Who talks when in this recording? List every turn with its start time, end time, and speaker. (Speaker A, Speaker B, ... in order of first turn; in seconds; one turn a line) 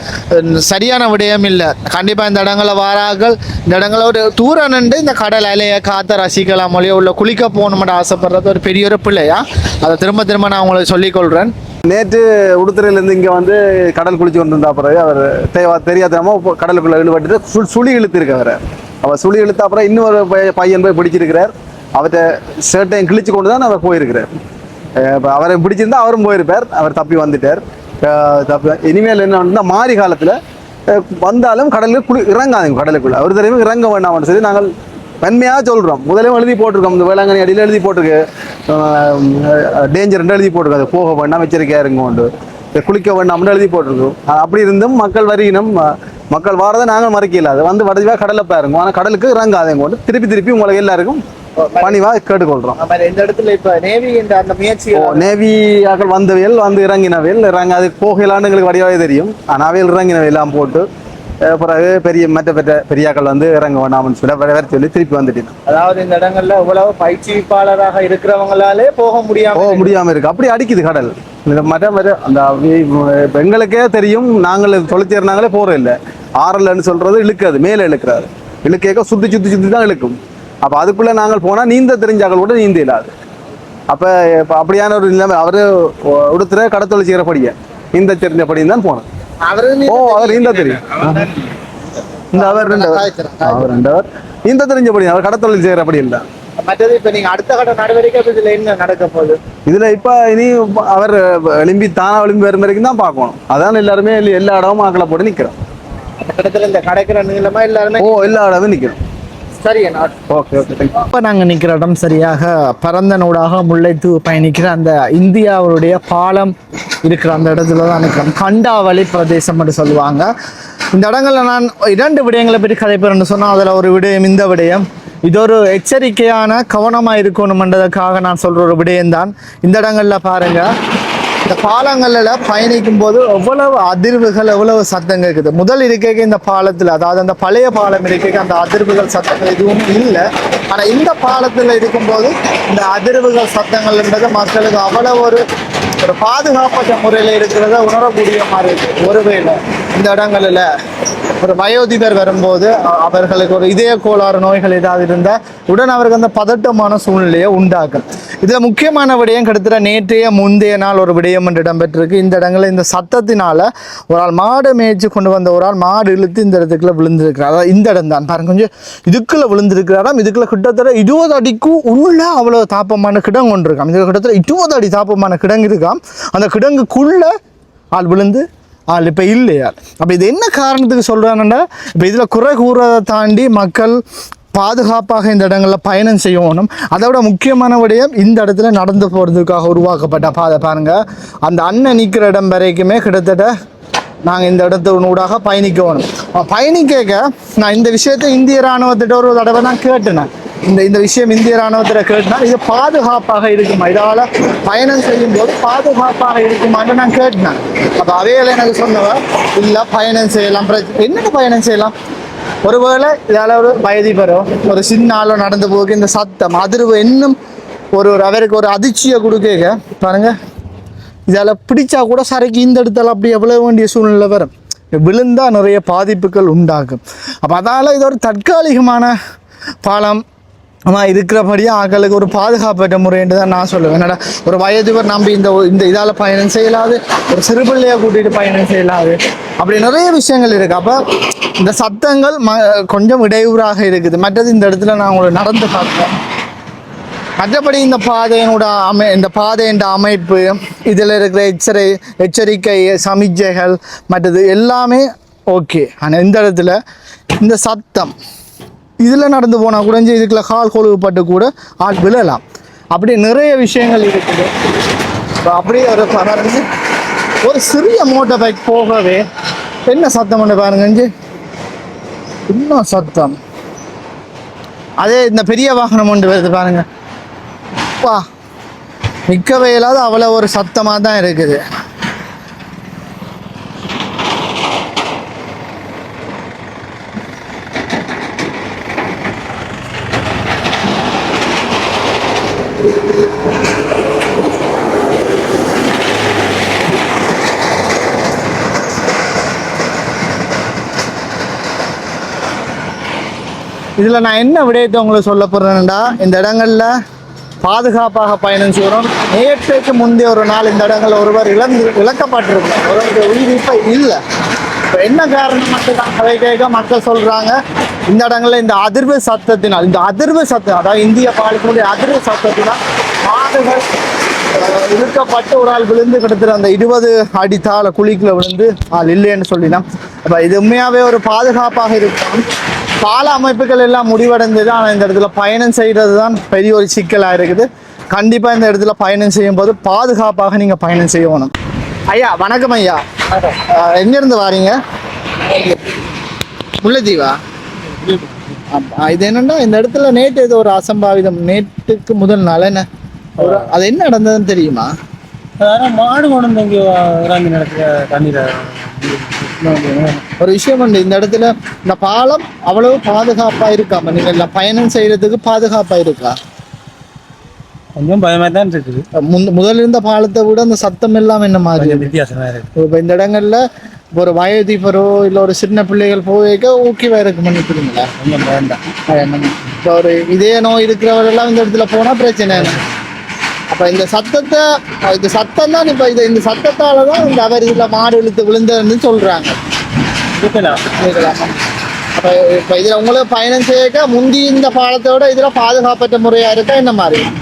Speaker A: 0.3-11.5
Speaker B: 11.9-24.3
Speaker B: 25.0-30.4
Speaker B: 30.9-34.7
Speaker B: 35.2-51.2
Speaker A: 51.6-52.0
Speaker B: 51.8-52.8
Speaker A: 52.8-55.3
Speaker B: 54.9-60.9
Speaker B: 61.5-65.5
Speaker A: 65.7-70.0
Speaker B: 69.5-83.1
Speaker B: 83.9-89.0
Speaker A: 89.4-91.5
Speaker B: 89.9-91.4
Speaker A: 92.3-93.7
Speaker B: 92.3-96.2
Speaker A: 96.6-99.4
Speaker B: 99.7-105.5
Speaker A: 106.2-108.4
Speaker B: 108.0-109.0
Speaker A: 109.6-110.1
Speaker B: 110.3-111.0
Speaker A: 110.9-116.5
Speaker A: 117.0-120.3
Speaker A: 120.9-130.7
Speaker A: 131.4-145.4
Speaker A: 146.0-150.7
Speaker A: 151.4-177.3
Speaker A: 177.9-184.0
Speaker A: 184.5-193.5
Speaker A: 194.2-211.9
Speaker A: 212.6-217.4
Speaker A: 217.9-220.3
Speaker A: 221.3-229.1
Speaker A: 229.8-230.2
Speaker A: 230.9-241.0
Speaker A: 241.6-246.1
Speaker A: 247.4-256.8
Speaker A: 257.4-258.1
Speaker A: 259.0-262.4
Speaker A: 262.9-264.5
Speaker A: 265.4-266.6
Speaker A: 267.4-269.2
Speaker A: 269.9-271.1
Speaker A: 272.5-273.4
Speaker A: 275.0-276.8
Speaker A: 279.3-281.6
Speaker A: 304.0-306.9
Speaker A: 307.6-314.2
Speaker A: 314.9-317.6
Speaker A: 318.1-323.8
Speaker A: 324.5-332.4
Speaker A: 333.0-341.5
Speaker A: 342.1-344.8
Speaker A: 345.4-345.8
Speaker A: 346.8-347.4
Speaker C: 347.9-348.5
Speaker A: 348.7-352.9
Speaker A: 353.4-354.9
Speaker C: 355.6-359.5
Speaker A: 359.6-366.4
Speaker C: 368.0-369.0
Speaker A: 369.2-372.1
Speaker C: 371.8-372.6
Speaker A: 372.8-373.6
Speaker A: 374.1-378.1
Speaker C: 378.2-378.8
Speaker A: 379.1-382.8
Speaker A: 383.7-389.6
Speaker C: 390.4-390.8
Speaker A: 390.9-391.6
Speaker A: 392.1-397.3